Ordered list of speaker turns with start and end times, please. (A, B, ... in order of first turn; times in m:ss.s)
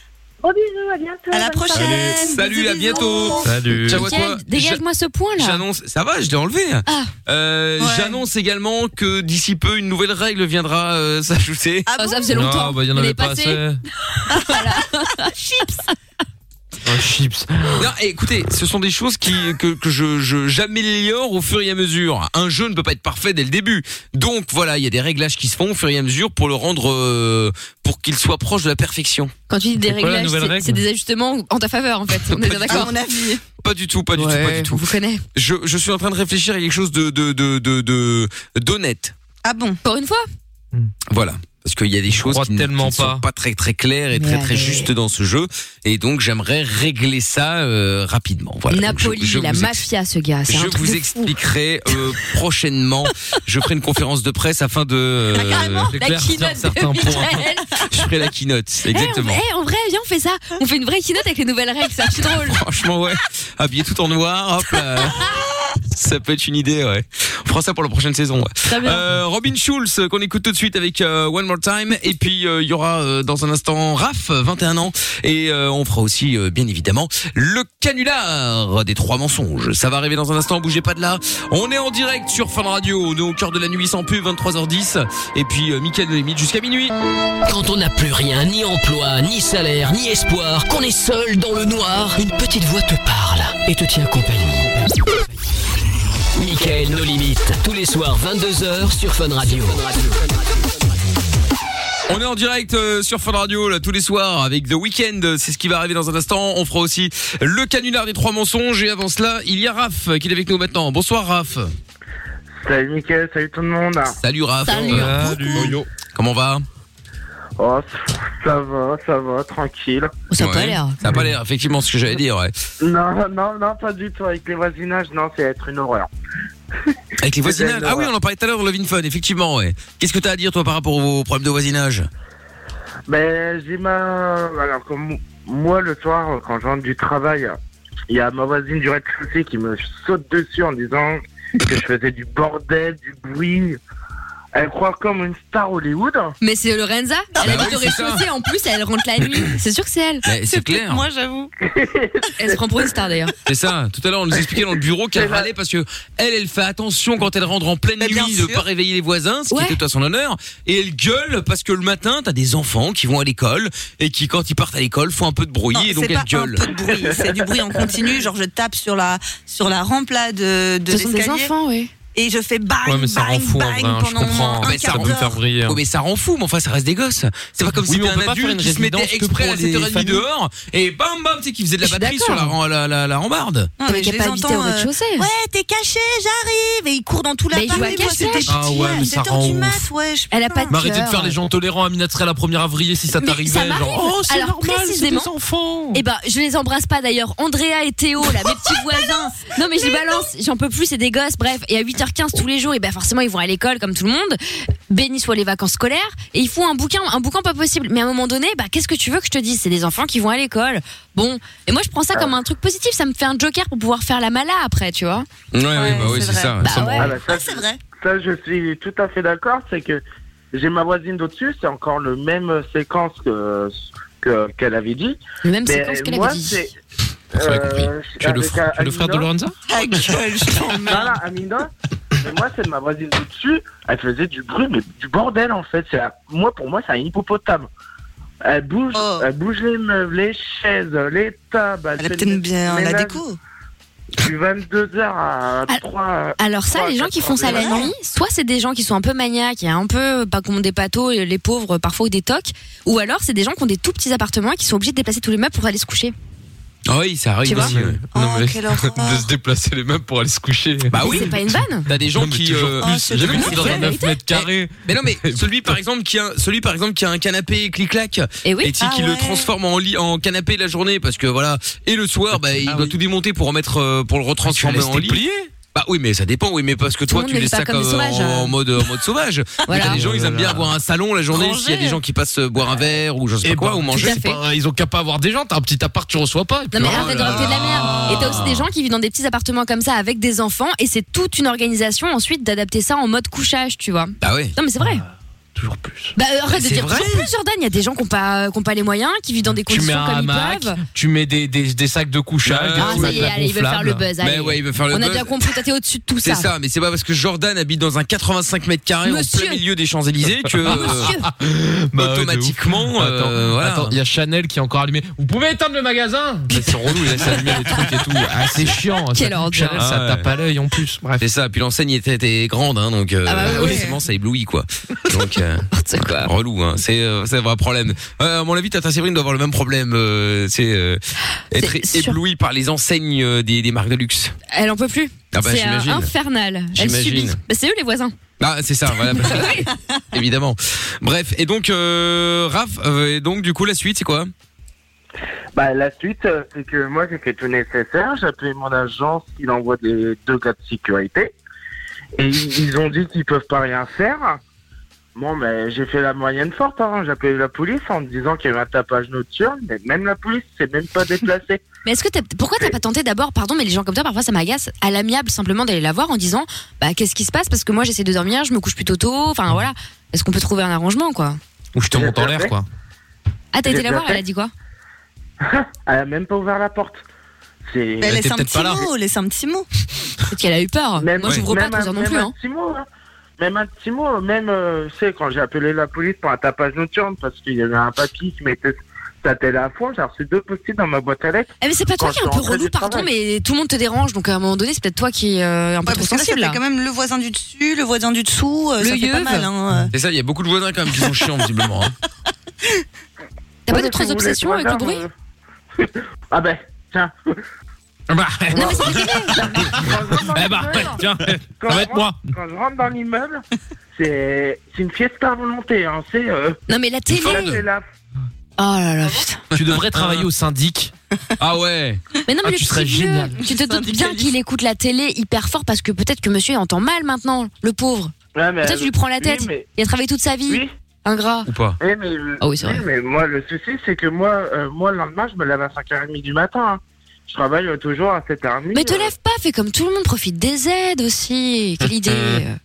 0:00.4-0:03.5 A
0:01.3-0:03.5 B
0:02.2-0:04.8 C
0:03.4-0:04.1 D
0:03.7-0:05.6 E
0:05.4-0:11.9 C
0:06.9-0:07.1 E
0:07.8-0:08.2 B
0:11.9-0:12.5 B
0:12.0-0:15.9 E
0:12.3-0:13.8 D
0:14.3-0:15.7 B
0:16.8-0:17.8 D
0:17.8-0:29.3 C
0:29.5-0:32.9 E
0:29.8-0:30.8 D
0:32.3-0:32.9 C
0:32.6-0:33.4 B
0:33.6-0:39.2 C
0:34.2-0:35.2 E
0:39.4-0:39.8 B
0:39.8-0:40.2 E
0:41.1-0:49.9 C
0:42.1-0:43.2 D
0:44.1-0:44.9 E
0:48.7-0:51.3 E
0:50.5-0:55.9 C
0:55.3-0:56.0 B
0:55.9-0:57.4 D
0:56.0-0:57.7 E
0:57.9-0:59.4 C
0:58.9-1:02.6 E
1:02.4-1:27.0 C
1:08.7-1:09.2 E
1:27.4-1:34.8 F
1:36.4-1:40.4 F
1:42.1-1:51.8 C
1:52.6-1:54.2 G
1:54.2-1:55.2 C
1:54.7-1:55.8 E
1:54.9-1:55.8 D
1:56.1-1:56.6 C
1:57.6-1:57.9 G
1:58.4-2:00.1 G
2:00.3-2:01.0 E
2:00.4-2:02.5 C
2:02.8-2:06.1 G
2:07.2-2:12.1 C
2:07.4-2:08.1 G
2:13.1-2:17.6 G
2:18.1-2:23.8 G
2:24.5-2:26.4 G
2:26.4-2:30.2 E
2:27.4-2:28.2 C
2:30.2-2:31.0 C
2:30.4-2:31.5 B
2:31.6-2:32.6 G
2:32.4-2:33.3 E
2:33.5-2:46.7 C
2:34.3-2:35.5 G
2:38.0-2:38.6 B
2:39.5-2:39.8 E
2:45.7-2:51.5 B
2:47.1-2:47.9 G
2:50.9-2:51.9 E
2:52.2-2:55.5 B
2:52.8-2:55.8 D
2:54.6-3:03.7 C
2:57.8-3:00.2 D
3:01.8-3:02.6 E
3:03.8-3:10.8 B
3:03.9-3:05.3 E
3:07.5-3:08.6 E
3:08.4-3:09.8 D
3:10.3-3:11.4 E
3:10.7-3:16.0 D
3:13.2-3:15.3 E
3:15.9-3:24.4 E
3:24.9-3:35.3 E
3:35.5-3:37.2 C
3:35.8-3:37.8 B
3:36.6-3:37.2 E
3:37.0-3:46.7 G
3:45.4-3:46.7 E
3:47.3-3:49.3 G
3:47.4-3:49.5 D
3:49.7-3:51.2 B
3:50.8-3:51.7 G
3:52.2-3:57.7 G
3:58.4-4:03.2 G
3:58.9-3:59.3 B
4:02.0-4:03.4 B
4:04.2-4:07.9 G
4:06.4-4:16.1 E
4:07.5-4:07.9 B
4:16.9-4:18.0 C
4:17.4-4:17.7 E
4:17.5-4:21.2 D
4:18.1-4:19.3 B
4:20.9-4:44.2 C
4:21.0-4:21.9 E
4:21.9-4:25.4 D
4:22.8-4:23.9 B
4:23.3-4:24.2 E
4:28.4-4:28.8 E
4:28.8-4:29.5 B
4:32.5-4:32.9 D
4:34.4-4:35.5 D
4:37.1-4:38.6 E
4:39.7-4:40.0 E
4:39.7-4:40.8 D
4:41.3-4:42.0 B
4:43.4-4:48.6 D
4:43.9-4:44.4 E
4:46.7-4:55.0 E
4:46.8-4:48.4 C
4:54.2-4:54.6 C
4:55.6-4:56.1 D
4:56.2-5:00.8 E
4:56.5-4:57.3 C
4:59.7-5:04.1 D
5:02.4-5:03.3 C
5:02.8-5:06.5 E
5:04.2-5:05.4 C
5:06.2-5:11.1 C
5:09.0-5:09.6 E
5:10.6-5:21.2 D
5:10.6-5:11.3 E
5:11.9-5:14.0 C
5:19.1-5:19.8 E
5:19.8-5:20.3 C
5:21.2-5:34.3 C
5:23.3-5:23.9 E
5:23.5-5:23.9 B
5:25.7-5:26.3 E
5:31.5-5:32.2 E
5:34.5-5:38.1 E
5:35.3-5:36.1 C
5:36.7-5:37.4 C
5:38.4-5:44.3 C
5:39.1-5:39.7 E
5:45.5-5:51.3 G
5:52.2-5:54.4 G
5:55.2-6:01.6 G
6:01.8-6:11.4 E
6:11.8-6:12.6 D
6:11.9-6:12.6 G
6:13.5-6:14.5 E
6:13.6-6:14.2 G
6:15.4-6:17.0 G
6:17.7-6:18.2 G
6:18.0-6:19.7 B
6:18.1-6:18.9 D
6:20.3-6:22.3 E
6:21.0-6:22.9 G
6:23.4-6:33.1 G
6:31.6-6:36.6 E
6:35.9-6:39.9 B
6:38.8-6:39.5 E
6:39.9-6:41.9 C
6:43.7-6:45.0 E
6:43.7-6:45.1 G
6:45.8-6:47.1 G
6:48.1-6:52.2 D
6:48.5-6:51.0 G
6:48.5-6:49.4 E
6:51.6-6:56.6 G
6:56.7-6:57.6 E
6:57.1-6:57.5 C
6:57.1-6:57.8 G
6:58.6-6:59.4 E
6:59.5-7:00.9 D
6:59.6-7:00.3 C
7:01.4-7:02.0 C
7:02.3-7:11.5 E
7:02.4-7:03.4 D
7:03.4-7:04.3 B
7:08.4-7:09.7 G
7:11.5-7:11.8 C
7:11.8-7:19.1 G
7:12.4-7:12.8 E
7:18.7-7:22.6 E